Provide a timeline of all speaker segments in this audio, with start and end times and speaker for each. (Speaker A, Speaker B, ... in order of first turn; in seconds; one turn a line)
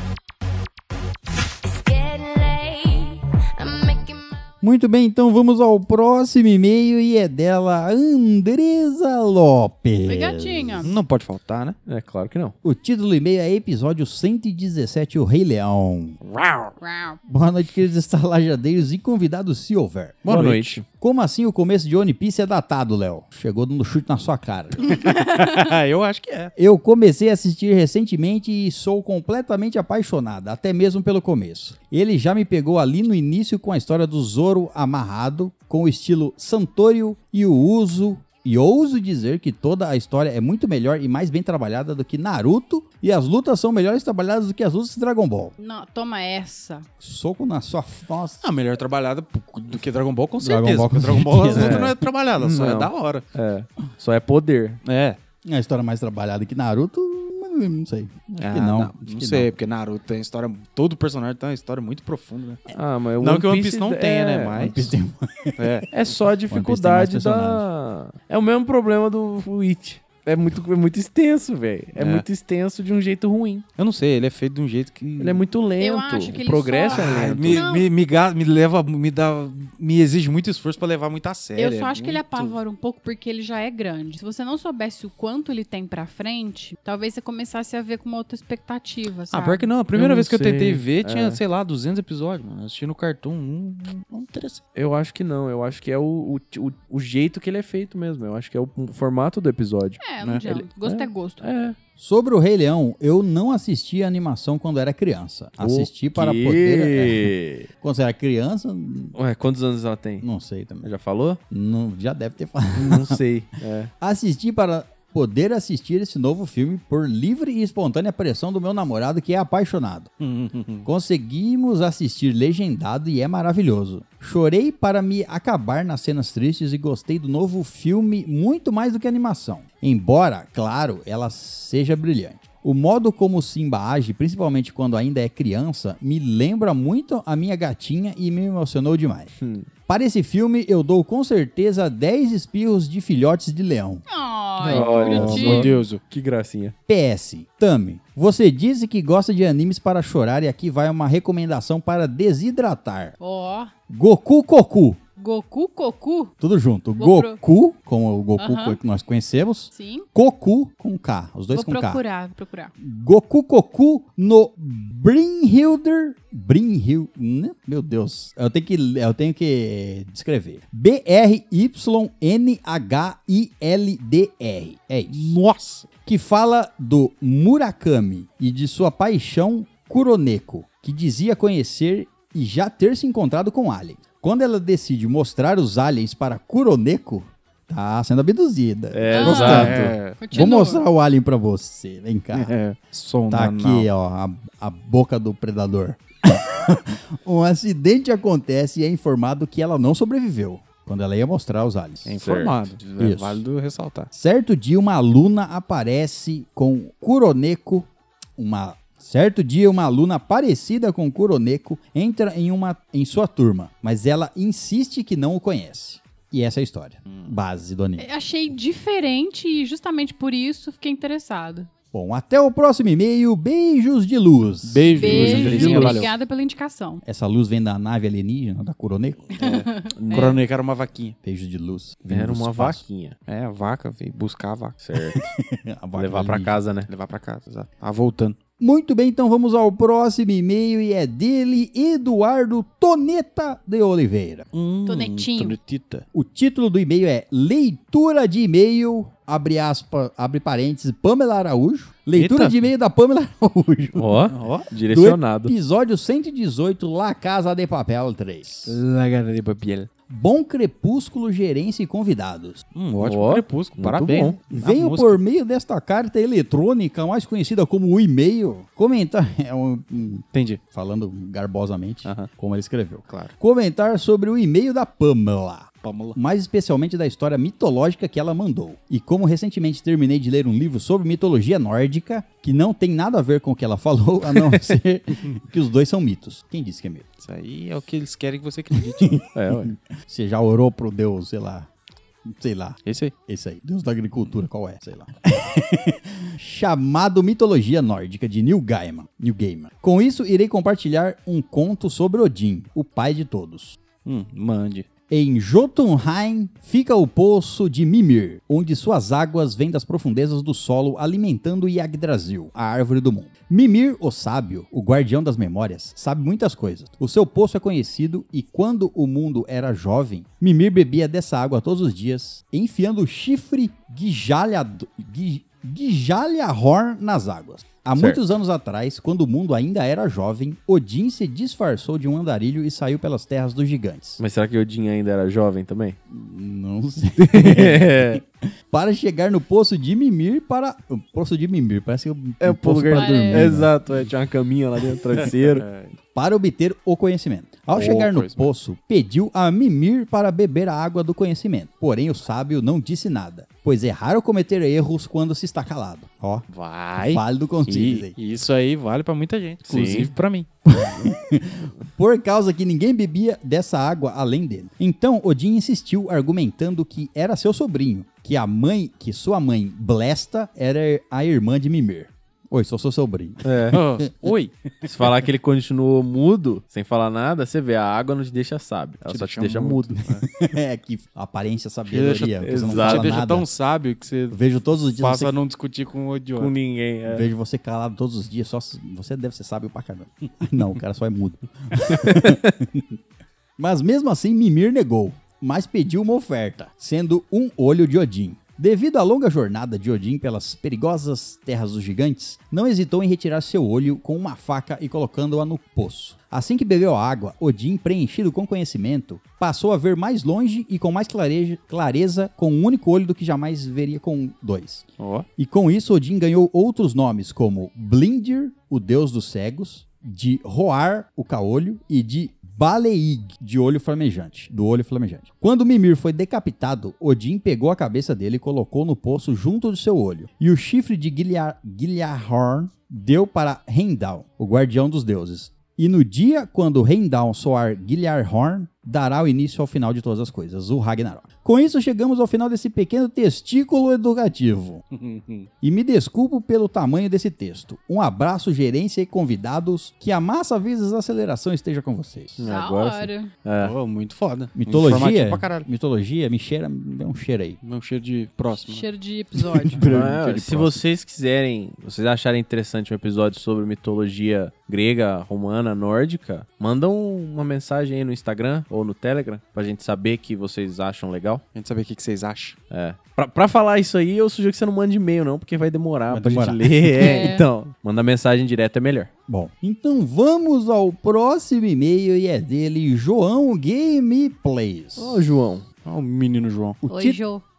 Speaker A: 1.6-4.4
Speaker B: 4.6-10.8
Speaker C: 10.1-11.0
Speaker D: 10.8-11.8
Speaker E: 11.9-12.5
Speaker B: 12.6-16.2
Speaker E: 16.3-16.7
Speaker C: 16.8-17.2
Speaker B: 17.2-20.3
Speaker D: 20.2-20.8
Speaker E: 20.3-20.8
Speaker B: 20.9-25.0
Speaker D: 24.9-26.5
Speaker B: 26.6-45.5
Speaker C: 45.6-46.9
Speaker B: 47.0-48.4
Speaker D: 48.4-53.2
Speaker B: 50.4-51.9
Speaker E: 51.5-54.8
Speaker D: 54.8-55.2
Speaker B: 55.4-59.5
Speaker D: 58.4-62.7
Speaker E: 62.7-64.7
Speaker D: 63.2-64.9
Speaker B: 64.6-65.8
Speaker D: 65.6-65.9
Speaker E: 65.9-73.7
Speaker B: 66.5-67.7
Speaker D: 72.0-72.2
Speaker D: 73.8-75.5
Speaker E: 75.2-77.7
Speaker C: 75.8-77.9
Speaker D: 76.9-82.6
Speaker C: 81.6-89.7
Speaker D: 89.3-94.6
Speaker E: 89.9-91.4
Speaker E: 94.7-101.8
Speaker C: 100.0-101.4
Speaker D: 100.2-100.5
Speaker B: 102.0-109.2
Speaker E: 105.6-107.7
Speaker E: 109.2-110.2
Speaker B: 110.2-110.9
Speaker E: 110.8-111.4
Speaker B: 111.5-113.2
Speaker E: 112.7-113.9
Speaker B: 114.0-120.1
Speaker D: 120.2-120.9
Speaker B: 120.8-139.3
Speaker E: 139.4-139.7
Speaker B: 139.9-144.0
Speaker C: 144.1-145.7
Speaker E: 144.6-146.7
Speaker D: 144.7-146.0
Speaker B: 146.9-153.1
Speaker C: 153.2-153.7
Speaker B: 153.9-155.0
Speaker C: 155.2-156.3
Speaker B: 156.4-162.0
Speaker C: 157.0-157.4
Speaker C: 158.4-158.8
Speaker C: 159.7-160.1
Speaker C: 161.5-162.7
Speaker B: 162.8-175.3
Speaker D: 175.1-175.9
Speaker B: 176.0-192.5
Speaker E: 188.9-189.9
Speaker C: 189.1-190.8
Speaker D: 189.2-190.2
Speaker D: 192.3-193.9
Speaker B: 193.3-202.2
Speaker D: 202.0-204.1
Speaker E: 202.2-202.6
Speaker B: 203.0-203.4
Speaker B: 204.1-218.1
Speaker C: 218.0-221.7
Speaker B: 221.9-226.0
Speaker D: 224.6-226.1
Speaker C: 225.0-227.0
Speaker E: 225.1-226.1
Speaker B: 227.0-229.4
Speaker C: 229.4-230.4
Speaker E: 229.4-230.4
Speaker D: 230.1-231.2
Speaker B: 231.2-232.8
Speaker E: 232.1-233.2
Speaker D: 233.2-234.8
Speaker E: 234.8-235.2
Speaker B: 235.1-236.6
Speaker E: 235.9-236.9
Speaker D: 236.9-238.4
Speaker B: 238.6-244.4
Speaker D: 244.5-246.0
Speaker C: 244.8-245.6
Speaker B: 246.1-254.2
Speaker D: 252.2-252.6
Speaker E: 253.9-255.5
Speaker D: 254.3-254.7
Speaker B: 254.9-258.8
Speaker D: 258.6-259.9
Speaker B: 260.1-262.6
Speaker D: 262.7-265.2
Speaker E: 263.0-264.4
Speaker B: 264.5-287.1
Speaker D: 270.3-270.6
Speaker D: 275.8-276.2
Speaker D: 287.2-289.2
Speaker B: 288.7-291.7
Speaker E: 289.3-289.7
Speaker B: 292.2-303.8
Speaker D: 292.8-293.1
Speaker D: 304.0-304.9
Speaker B: 305.1-334.2
Speaker E: 327.9-328.2
Speaker E: 334.2-336.0
Speaker B: 336.1-343.7
Speaker E: 337.2-338.2
Speaker E: 342.4-345.6
Speaker C: 342.9-343.5
Speaker D: 345.2-345.9
Speaker B: 346.1-358.1
Speaker D: 347.7-348.5
Speaker D: 356.5-360.5
Speaker E: 359.7-360.1
Speaker B: 360.6-373.8
Speaker E: 373.4-373.8
Speaker D: 373.7-374.9
Speaker E: 374.8-380.0
Speaker D: 379.1-380.2
Speaker B: 380.2-383.5
Speaker D: 381.9-384.4
Speaker E: 382.4-383.2
Speaker B: 384.3-385.3
Speaker D: 385.0-386.5
Speaker E: 386.4-387.2
Speaker B: 387.1-393.0
Speaker B: 393.6-414.9
Speaker D: 415.0-415.2
Speaker B: 415.4-444.8
Speaker D: 444.9-445.5
Speaker B: 445.6-452.4
Speaker E: 452.4-453.7
Speaker C: 452.4-453.3
Speaker D: 453.6-455.6
Speaker B: 454.5-457.6
Speaker D: 457.6-458.8
Speaker C: 458.6-459.8
Speaker B: 459.4-460.8
Speaker E: 459.9-471.4
Speaker D: 471.5-472.6
Speaker E: 472.7-479.1
Speaker B: 476.1-477.1
Speaker C: 476.9-477.4
Speaker B: 479.3-485.2
Speaker E: 484.9-485.6
Speaker D: 485.8-486.8
Speaker B: 486.8-487.2
Speaker C: 486.9-487.4